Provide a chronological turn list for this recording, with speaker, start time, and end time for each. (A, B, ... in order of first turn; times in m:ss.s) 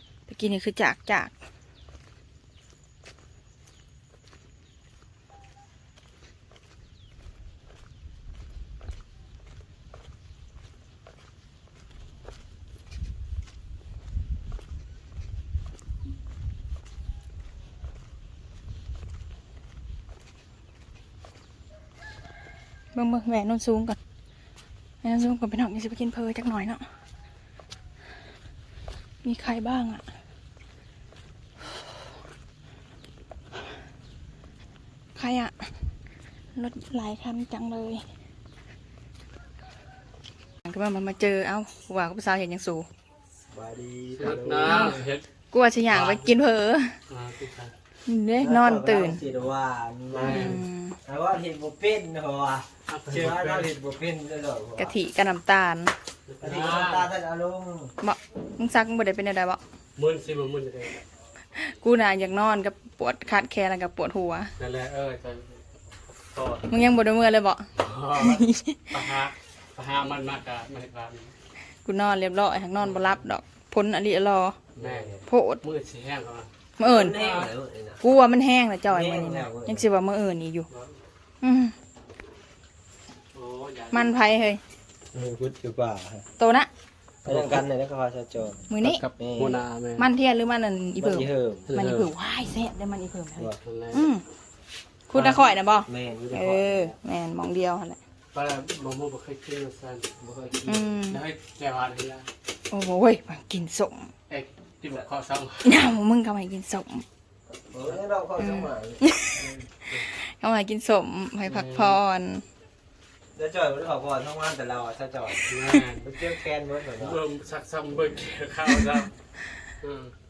0:00.3-0:01.3 A
0:23.0-0:24.0 A
0:25.0-0:26.8 A
0:29.2-0:30.0 A
0:35.2-0:35.6 A
0:36.6-0:38.0 A
0:40.7-0:42.9 A
0:43.5-0:45.0 B
0:44.2-0:45.2 C
0:44.6-0:46.9 A
0:45.9-0:46.3 C
0:47.1-0:47.7 C
0:48.1-0:49.2 A
0:48.4-0:55.0 B
0:50.1-0:50.6 C
0:50.3-0:51.0 A
0:52.9-0:53.7 C
0:54.8-0:55.9 A
0:56.3-0:57.1 C
0:56.4-0:57.9 B
0:58.0-0:59.6 A
1:00.0-1:01.0 C
1:01.6-1:04.5 A
1:04.6-1:06.9 C
1:06.7-1:07.6 A
1:07.8-1:11.3 C
1:08.2-1:08.9 A
1:11.8-1:14.6 A
1:12.8-1:13.2 C
1:14.8-1:16.5 C
1:14.8-1:15.2 B
1:15.3-1:15.6 A
1:16.8-1:17.2 A
1:16.8-1:18.0 B
1:17.1-1:17.5 C
1:18.0-1:20.7 A
1:18.9-1:19.9 B
1:20.7-1:21.0 C
1:21.4-1:21.7 A
1:23.4-1:24.2 C
1:23.9-1:24.6 A
1:25.1-1:26.3 B
1:26.4-1:26.7 A
1:27.2-1:29.6 B
1:27.3-1:27.6 C
1:28.7-1:29.0 A
1:28.8-1:30.1 C
1:30.0-1:34.2 A
1:31.0-1:31.7 B
1:31.7-1:32.1 C
1:33.6-1:34.1 C
1:35.1-1:38.0 A
1:35.2-1:37.0 B
1:38.3-1:40.1 C
1:40.2-1:40.8 B
1:40.6-1:42.3 C
1:40.7-1:41.2 A
1:42.7-1:44.1 A
1:44.3-1:45.8 C
1:45.6-1:47.0 A
1:47.7-1:49.0 B
1:48.4-1:49.4 A
1:49.9-1:52.4 A
1:51.4-1:52.0 C
1:53.4-1:57.2 B
1:55.5-1:56.1 C
1:57.0-1:59.1 C
1:59.8-2:00.1 C